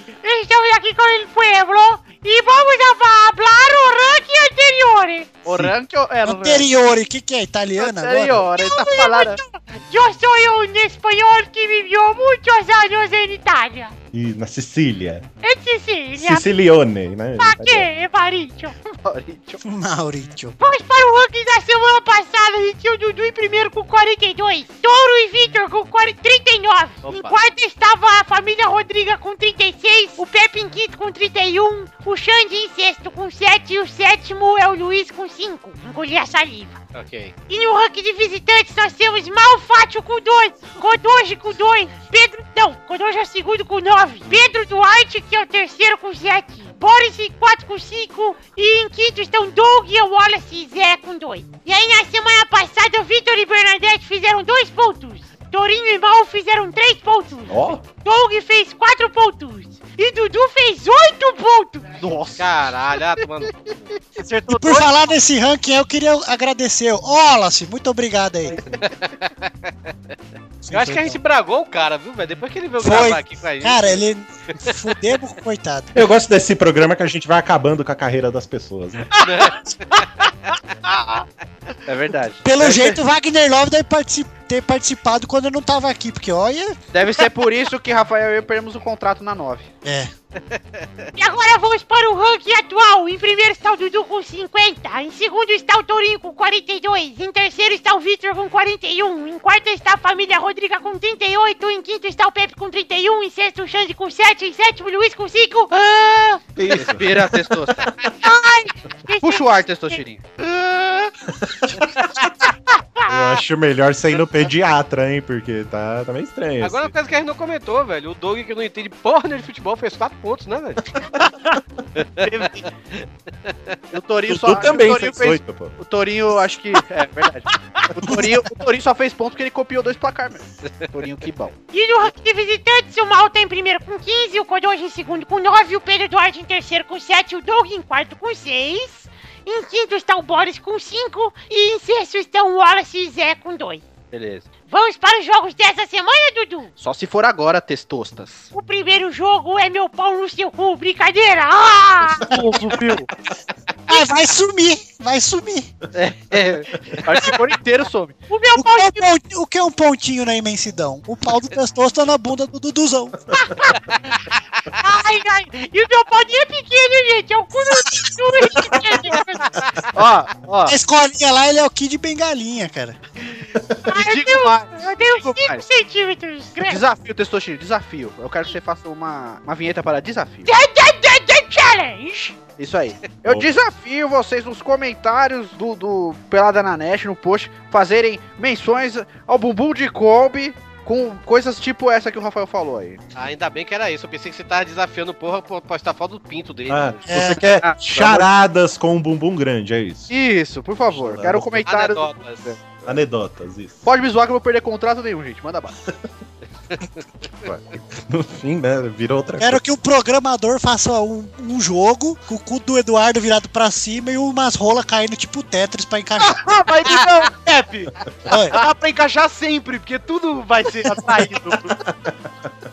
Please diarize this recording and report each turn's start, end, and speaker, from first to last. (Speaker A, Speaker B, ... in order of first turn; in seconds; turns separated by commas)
Speaker A: 0.2-5.4, Speaker B: 5.4-6.7, Speaker C: 6.2-8.5, Speaker B: 7.8-9.4, Speaker A: 8.5-13.9, Speaker D: 14.1-15.2, Speaker A: 15.4-16.4, Speaker D: 16.2-17.9, Speaker A: 17.4-18.9, Speaker B: 19.0-19.6, Speaker C: 19.6-20.6, Speaker A: 20.6-36.8, Speaker B: 27.0-27.4, Speaker E: 36.9-37.3, Speaker A: 37.5-61.9, Speaker D: 57.5-57.8, Speaker B: 62.0-62.5, Speaker E: 62.4-63.9, Speaker C: 64.5-68.6, Speaker E: 68.9-69.3, Speaker C: 70.6-71.2, Speaker E: 70.7-74.0, Speaker C: 72.8-76.0, Speaker D: 75.9-79.1, Speaker E: 79.2-80.1, Speaker F: 80.8-81.2, Speaker B: 81.8-83.0, Speaker C: 82.4-86.8, Speaker B: 86.9-89.7, Speaker C: 89.8-90.1, Speaker A: 91.2-106.4, Speaker D: 106.5-107.5, Speaker B: 106.7-107.9, Speaker A: 108.2-110.0, Speaker B: 109.2-110.2, Speaker F: 110.4-111.1, Speaker D: 111.3-112.0, Speaker A: 112.7-113.1, Speaker D: 113.1-116.9, Speaker E: 116.6-120.9, Speaker E: 122.0-123.7, Speaker B: 122.2-122.7, Speaker B: 123.9-131.5, Speaker D: 124.3-125.7, Speaker A: 131.7-143.8, Speaker B: 144.1-144.5, Speaker A: 144.7-146.7, Speaker B: 146.8-148.5, Speaker A: 148.5-152.3, Speaker B: 152.2-153.1, Speaker C: 153.9-155.7, Speaker B: 155.9-158.2, Speaker A: 158.3-159.1, Speaker C: 158.6-163.2, Speaker A: 163.3-163.8, Speaker A: 164.8-169.6, Speaker B: 169.9-170.8, Speaker C: 170.6-173.0, Speaker A: 173.9-176.8, Speaker B: 173.9-175.6, Speaker B: 176.6-180.5, Speaker A: 180.4-182.4, Speaker B: 182.6-193.0, Speaker E: 193.1-197.0, Speaker D: 196.7-200.1, Speaker C: 197.1-197.4, Speaker B: 197.2-198.2, Speaker B: 200.1-202.6, Speaker D: 200.9-201.6, Speaker E: 201.7-202.5, Speaker D: 202.8-203.8, Speaker B: 203.8-205.7, Speaker E: 206.7-207.0, Speaker D: 207.4-209.6, Speaker C: 209.4-216.4, Speaker F: 216.3-221.8, Speaker C: 218.2-218.6, Speaker D: 221.8-222.3